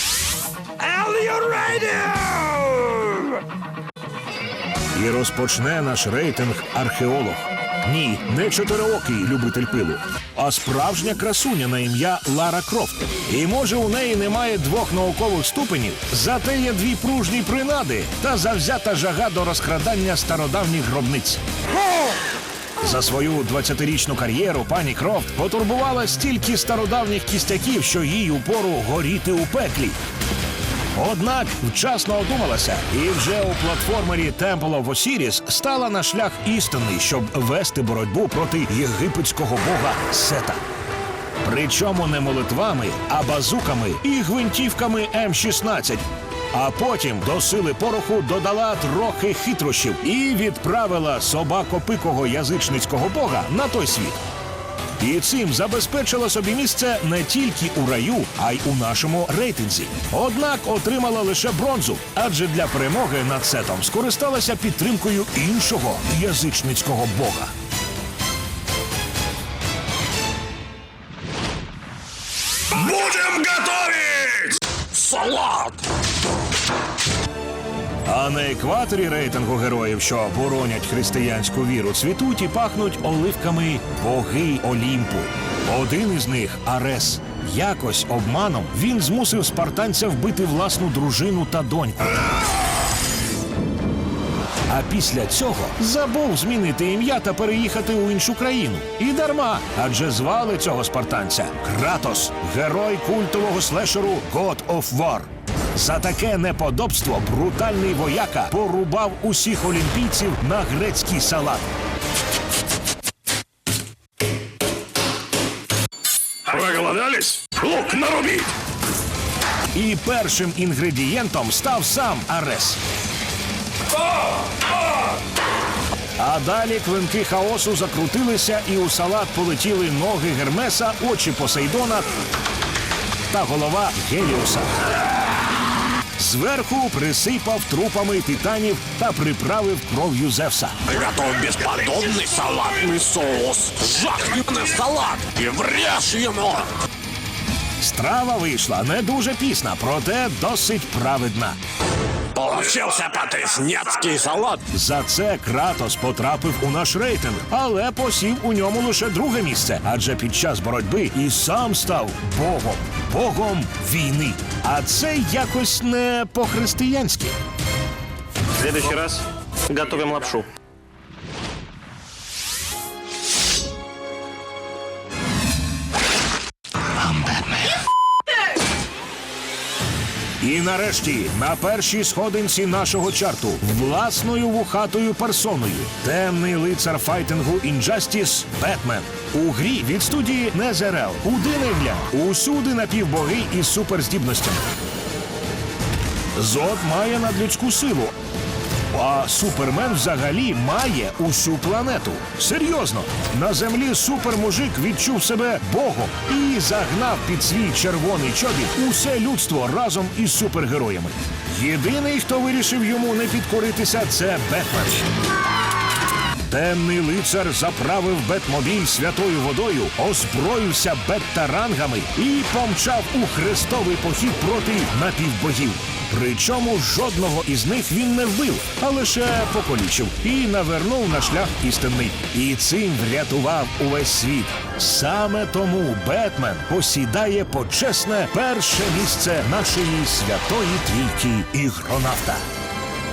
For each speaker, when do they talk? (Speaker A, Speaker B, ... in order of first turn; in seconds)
Speaker A: 1.7-2.4, 168.6-170.5
Speaker B: 4.9-21.4, 22.8-30.0, 30.9-40.6, 41.4-54.2, 55.0-67.5, 78.0-92.3, 94.7-111.7, 119.7-122.8, 126.2-132.1, 133.3-134.7, 136.2-140.9, 147.8-151.6, 154.7-167.4, 180.4-194.6, 196.3-198.1, 198.9-215.1, 216.5-242.4
Speaker C: 72.7-75.8, 116.4-118.5, 140.8-146.7, 152.3-154.7